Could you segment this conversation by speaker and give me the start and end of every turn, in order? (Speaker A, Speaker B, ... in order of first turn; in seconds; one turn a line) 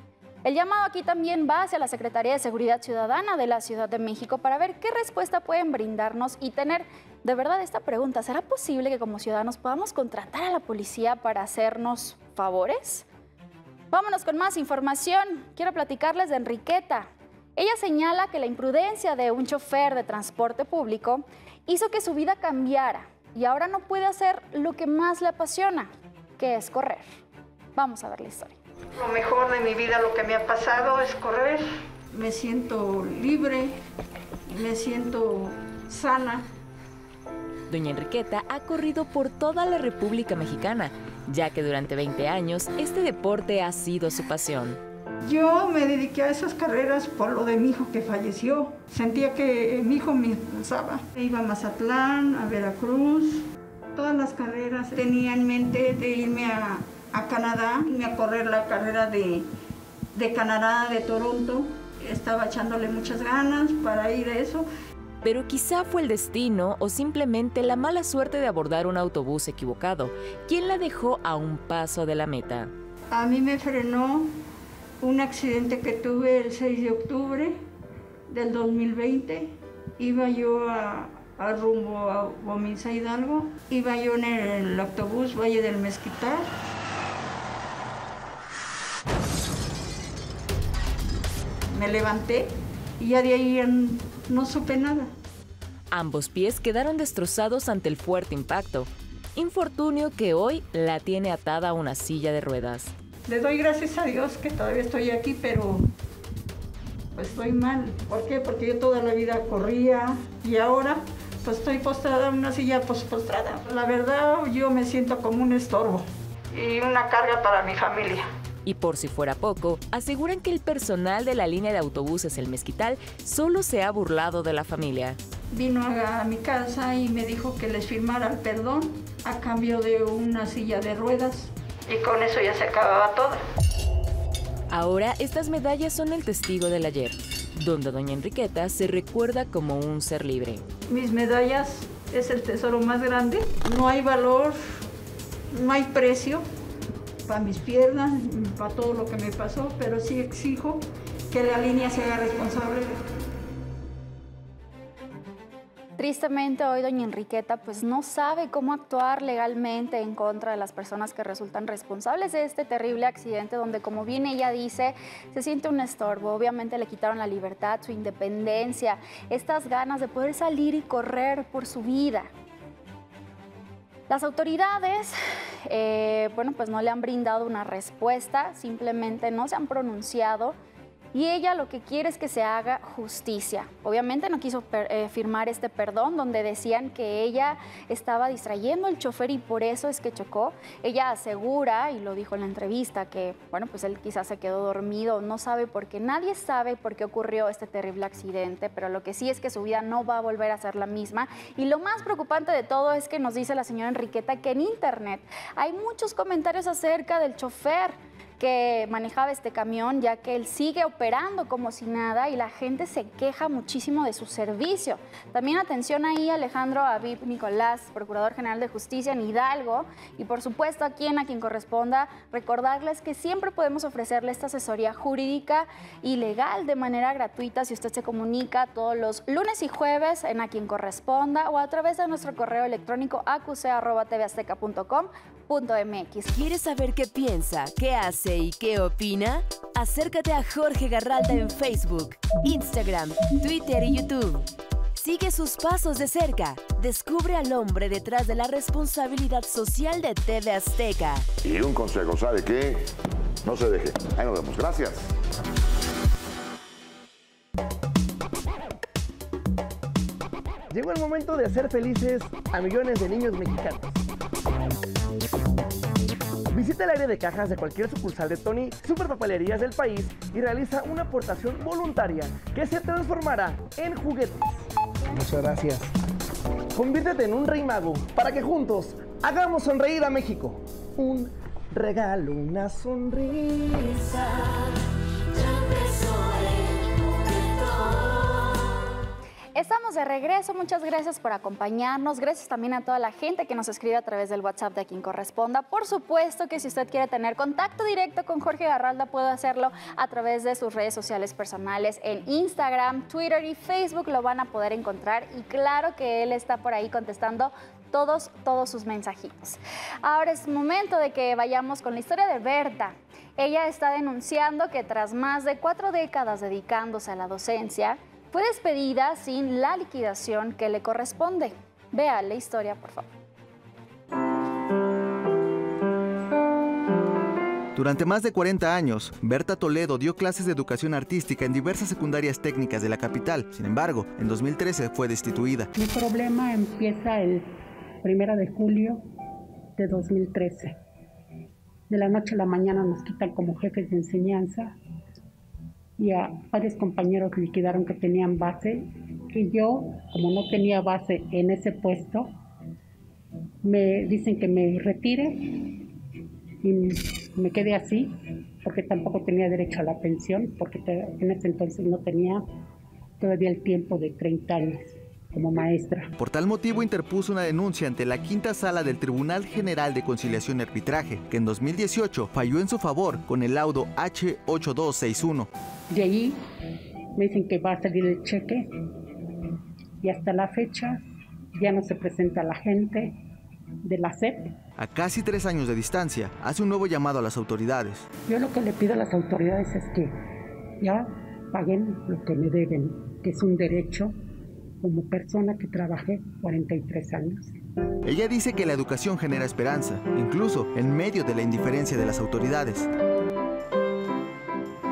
Speaker A: 0.4-13.0
Speaker A: 13.9-27.0
Speaker A: 27.8-28.6
Speaker B: 28.9-33.8
Speaker B: 34.5-36.5
Speaker C: 37.7-44.8
Speaker B: 45.2-53.4
Speaker B: 53.9-59.5
Speaker B: 60.1-64.7
Speaker C: 65.2-72.7
Speaker B: 73.1-74.3
Speaker B: 75.0-77.6
Speaker B: 78.3-86.5
Speaker B: 91.7-95.1
Speaker C: 95.9-102.9
Speaker B: 103.3-105.9
Speaker B: 107.1-118.3
Speaker C: 118.6-125.2
Speaker B: 125.5-133.4
Speaker C: 134.7-140.6
Speaker B: 140.9-144.8
Speaker B: 145.5-146.4
Speaker B: 147.2-153.0
Speaker A: 156.0-172.3
Speaker A: 174.1-175.1
Speaker A: 175.7-180.6
Speaker A: 181.1-236.3
Speaker D: 236.3-244.4
Speaker D: 245.0-251.2
Speaker E: 251.4-252.8
Speaker E: 253.4-255.1
Speaker F: 260.7-263.9
Speaker F: 266.5-275.9
Speaker F: 276.7-284.4
Speaker A: 289.6-323.1
Speaker G: 327.7-335.7
Speaker H: 335.8-337.5
Speaker H: 338.0-339.0
Speaker H: 339.8-340.8
Speaker H: 341.9-344.8
Speaker H: 346.0-352.3
Speaker H: 353.6-355.6
Speaker H: 356.6-362.4
Speaker H: 363.2-366.1
Speaker G: 366.2-375.5
Speaker H: 375.9-376.4
Speaker H: 377.1-378.7
Speaker H: 380.0-381.0
Speaker H: 381.6-383.2
Speaker H: 383.8-384.5
Speaker G: 384.8-388.1
Speaker H: 388.3-390.1
Speaker H: 390.8-394.1
Speaker H: 394.8-397.5
Speaker G: 398.0-402.9